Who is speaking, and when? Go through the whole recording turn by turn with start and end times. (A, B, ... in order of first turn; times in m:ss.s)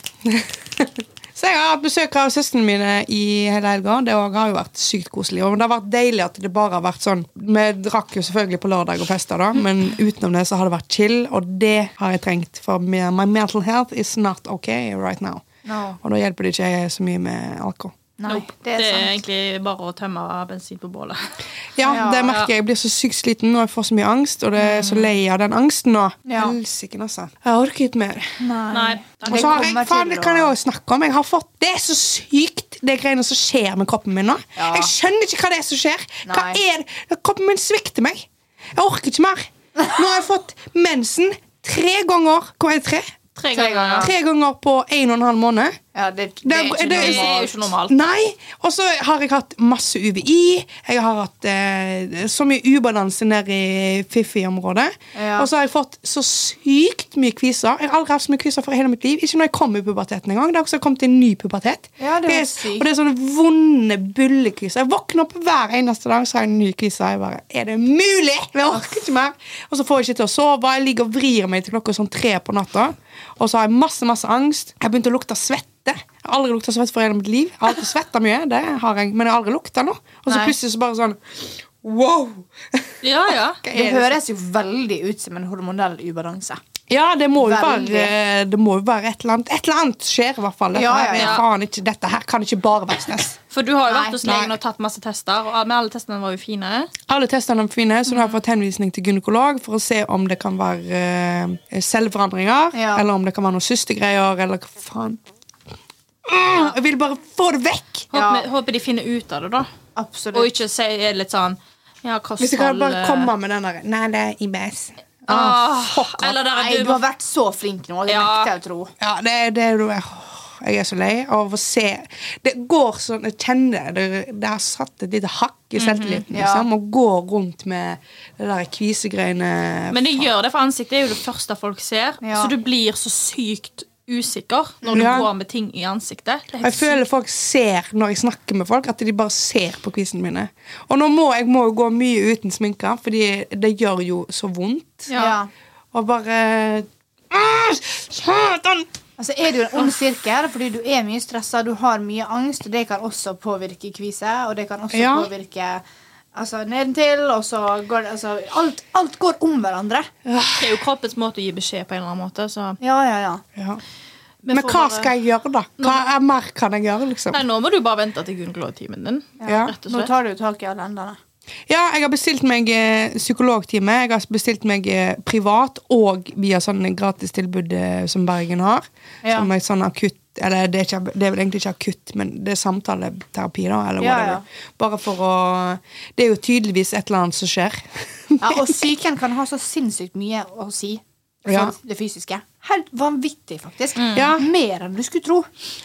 0:00.2-0:15.4 A
0:15.6-0:16.0 B
0:16.0-0:18.0 A
0:18.2-0:19.1 B
0:18.3-0:21.3 C
0:21.8-0:28.4 A
0:21.8-0:22.3 B
0:22.2-0:22.5 C
0:24.6-0:25.1 C
0:26.3-0:26.6 B
0:28.4-0:30.5 B
0:28.7-0:29.7 C
0:29.3-0:43.2 A
0:34.6-0:34.9 B
0:36.3-0:36.6 B
0:43.4-0:44.1 C
0:43.5-0:44.1 B
0:44.0-0:45.8 A
0:45.9-0:47.5 B
0:46.4-1:24.2 A
0:46.8-0:48.0 C
0:55.1-0:55.5 B
1:02.0-1:02.9 B
1:20.3-1:20.6 B
1:23.0-1:23.6 C
1:23.7-1:26.6 B
1:26.9-1:33.4 A
1:27.4-1:28.1 B
1:30.7-1:31.4 B
1:31.1-1:31.4 C
1:33.5-1:36.9 C
1:33.9-1:34.2 B
1:34.2-1:34.5 A
1:37.1-1:45.2 A
1:38.1-1:38.4 C
1:42.7-1:43.0 B
1:46.2-1:48.1 A
1:48.1-1:49.7 C
1:48.1-1:48.5 B
1:50.0-1:50.5 B
1:50.3-1:53.3 C
1:52.4-1:56.3 A
1:55.3-1:57.0 C
1:56.2-1:58.9 B
1:58.1-1:58.5 C
1:59.0-2:10.3 A
2:05.8-2:06.2 C
2:06.3-2:06.7 B
2:09.9-2:17.0 C
2:12.2-2:12.5 B
2:14.8-2:15.2 B
2:14.9-2:15.3 A
2:16.6-2:25.1 A
2:25.1-2:25.4 C
2:25.1-2:25.5 B
2:25.9-2:28.9 A
2:29.2-2:35.8 B
2:34.9-2:35.3 A
2:36.3-2:40.1 B
2:40.3-2:40.8 A
2:40.6-2:42.8 C
2:42.8-2:43.4 B
2:43.6-2:43.8 A
2:44.4-2:45.1 C
2:44.5-2:47.4 A
2:47.3-2:50.1 C
2:49.4-2:51.2 B
2:49.5-2:49.7 A
2:51.7-3:08.8 A
2:59.2-2:59.5 B
3:04.0-3:04.4 B
3:08.4-3:15.5 B
3:11.5-3:11.8 A
3:14.0-3:14.3 C
3:14.2-3:14.5 A